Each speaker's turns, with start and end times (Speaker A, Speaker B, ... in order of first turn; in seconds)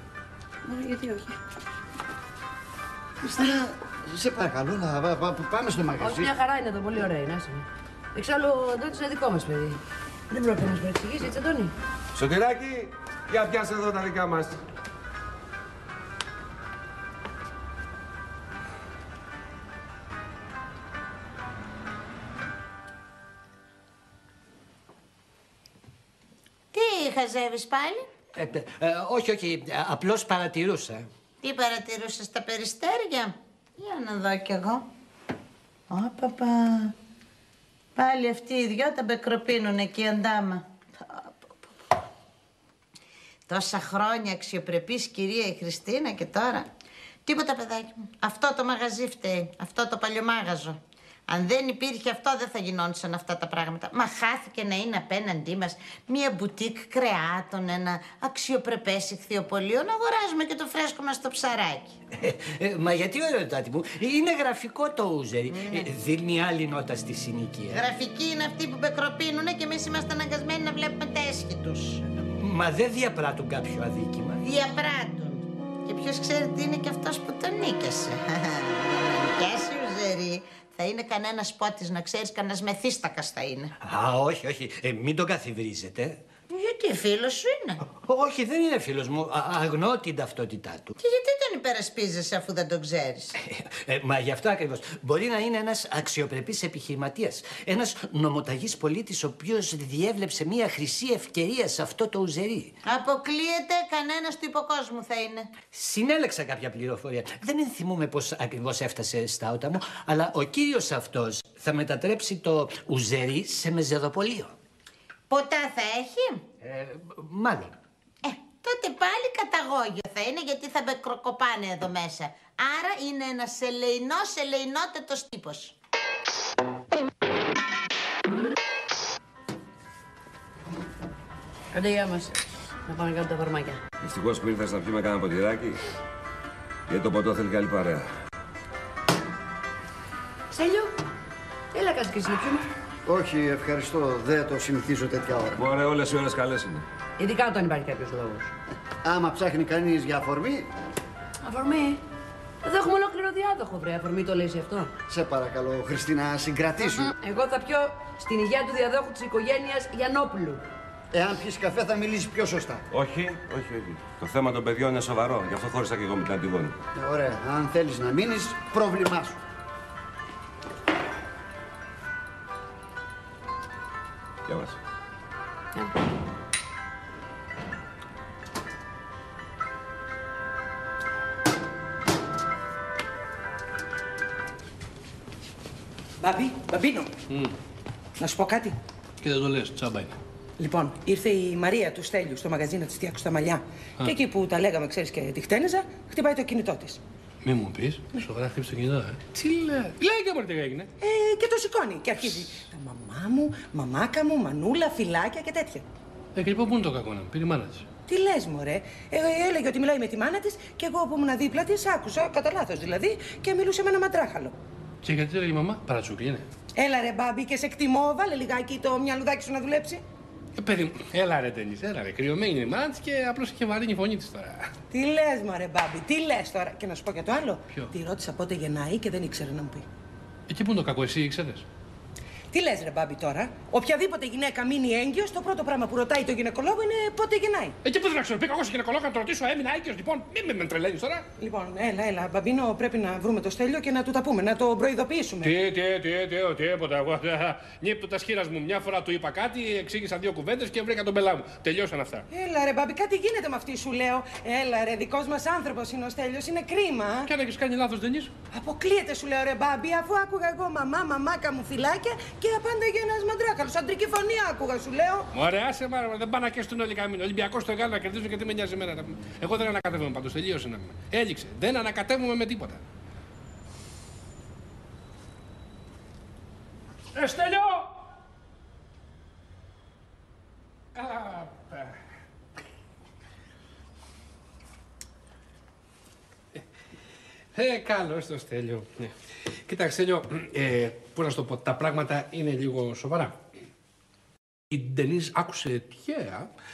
Speaker A: 0.6-1.4, 6.0-9.8, 10.3-11.7, 131.7-132.3, 132.9-133.8, 140.5-140.9, 141.7-142.7, 147.2-148.5, 151.4-152.0, 152.6-154.9, 156.9-160.6
Speaker B: 3.2-6.3, 143.1-145.6, 149.0-150.7, 155.1-157.1, 161.1-162.8, 166.9-169.4
Speaker C: 12.2-14.6, 134.0-135.8, 136.9-138.1, 145.6-146.8, 162.9-166.8, 174.5-174.8
Speaker D: 26.7-28.1, 31.4-34.9, 35.9-36.9, 38.0-41.4, 43.5-46.7, 47.3-62.0, 65.6-65.9, 67.7-72.0, 74.4-83.7, 86.5-87.8, 91.0-93.3, 102.9-105.5, 115.3-116.4, 118.2-125.8
Speaker E: 28.4-31.1, 62.2-67.8, 72.4-74.4, 83.8-86.2, 87.9-90.9, 93.4-102.7, 105.7-114.5, 116.6-117.7
Speaker F: 186.2-187.1, 188.2-188.8, 190.6-197.0, 201.0-205.9, 208.1-214.6, 216.8-220.0, 224.9-229.9, 232.5-237.8, 241.4-245.6, 252.3-257.3, 258.5-265.3
Speaker G: 187.3-187.5, 189.2-190.2, 197.4-200.9, 202.2-202.6, 206.3-207.9, 215.0-216.5, 220.6-224.7, 230.5-231.7, 237.8-241.3, 245.4-252.3, 257.2-258.3, 265.3-272.8, 277.1-277.9, 280.9-282.0, 287.6-293.4, 294.7-296.5